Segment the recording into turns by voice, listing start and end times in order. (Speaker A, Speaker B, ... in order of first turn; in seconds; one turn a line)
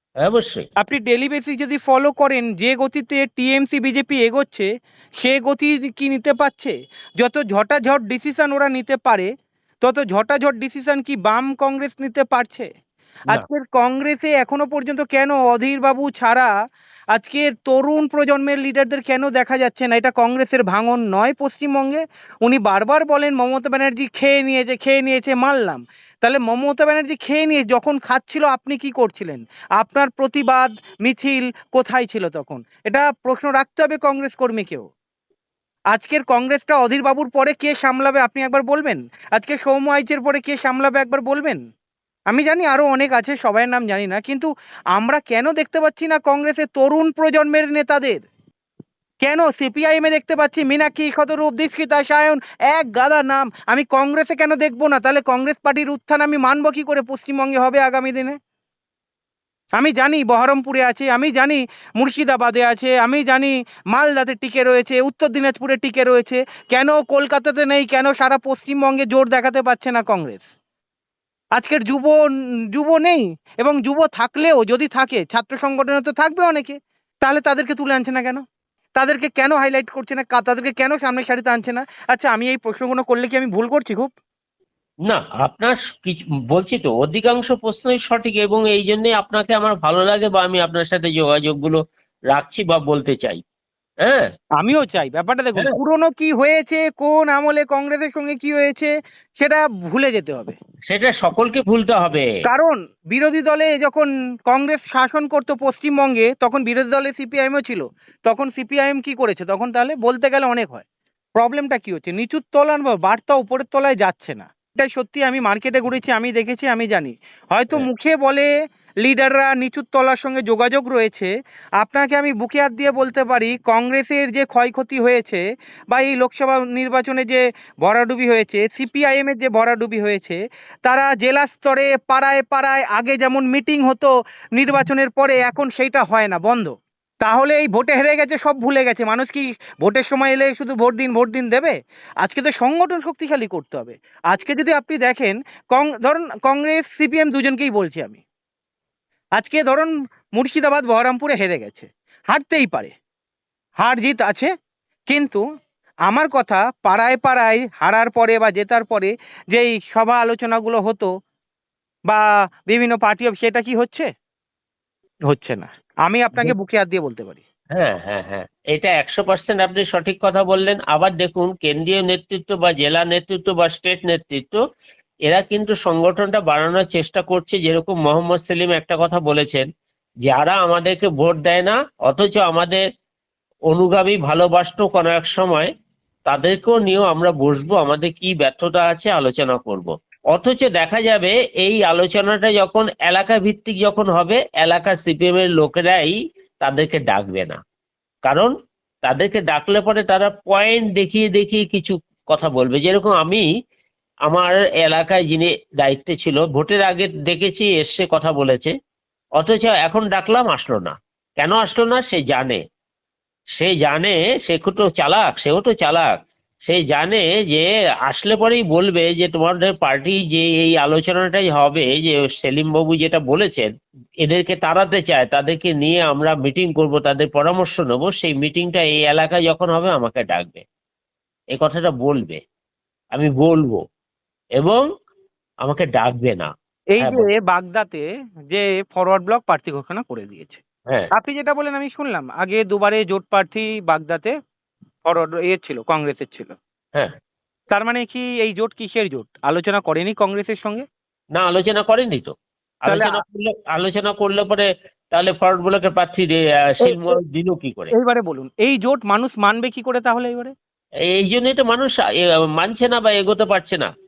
Speaker A: 0.2-0.7
Speaker B: 0.8-4.7
Speaker B: 5.2-9.3
Speaker B: 9.8-12.7
Speaker B: 13.3-16.5
Speaker B: 17.1-34.9
Speaker B: 35.9-41.6
Speaker B: 42.3-48.2
Speaker B: 49.2-58.4
Speaker B: 59.8-70.5
Speaker B: 71.5-72.2
Speaker B: 72.7-78.4
Speaker B: 79.0-84.1
Speaker A: 85.0-91.8
Speaker A: 92.3-93.4
Speaker B: 94.6-100.5
Speaker A: 100.9-102.3
Speaker B: 102.4-110.8
Speaker B: 111.3-118.5
Speaker B: 119.0-148.2
Speaker B: 149.4-152.9
Speaker B: 153.8-154.5
Speaker B: 155.1-155.4
Speaker B: 156.1-161.1
Speaker B: 162.1-164.1
Speaker B: 165.3-167.4
Speaker A: 167.7-174.6
Speaker A: 175.2-179.7
Speaker A: 180.2-182.8
Speaker A: 183.7-185.7
Speaker A: 186.2-197.6
Speaker A: 198.2-198.5
Speaker A: 199.0-203.4
Speaker A: 204.3-208.7
Speaker A: 209.4-212.6
Speaker A: 213.6-216.1
Speaker A: 216.6-223.7
Speaker A: 224.2-230.6
Speaker A: 231.5-232.4
Speaker A: 233.1-233.8
Speaker A: 234.6-234.8
Speaker A: 235.6-237.2
Speaker B: 236.9-240.6
Speaker B: 241.1-244.3
Speaker B: 245.0-246.6
Speaker B: 247.7-250.8
Speaker A: 251.3-252.3
Speaker A: 252.8-257.9
Speaker B: 252.9-253.2
Speaker B: 256.8-257.1
Speaker B: 257.9-260.5
Speaker A: 261.1-262.0
Speaker A: 262.5-263.9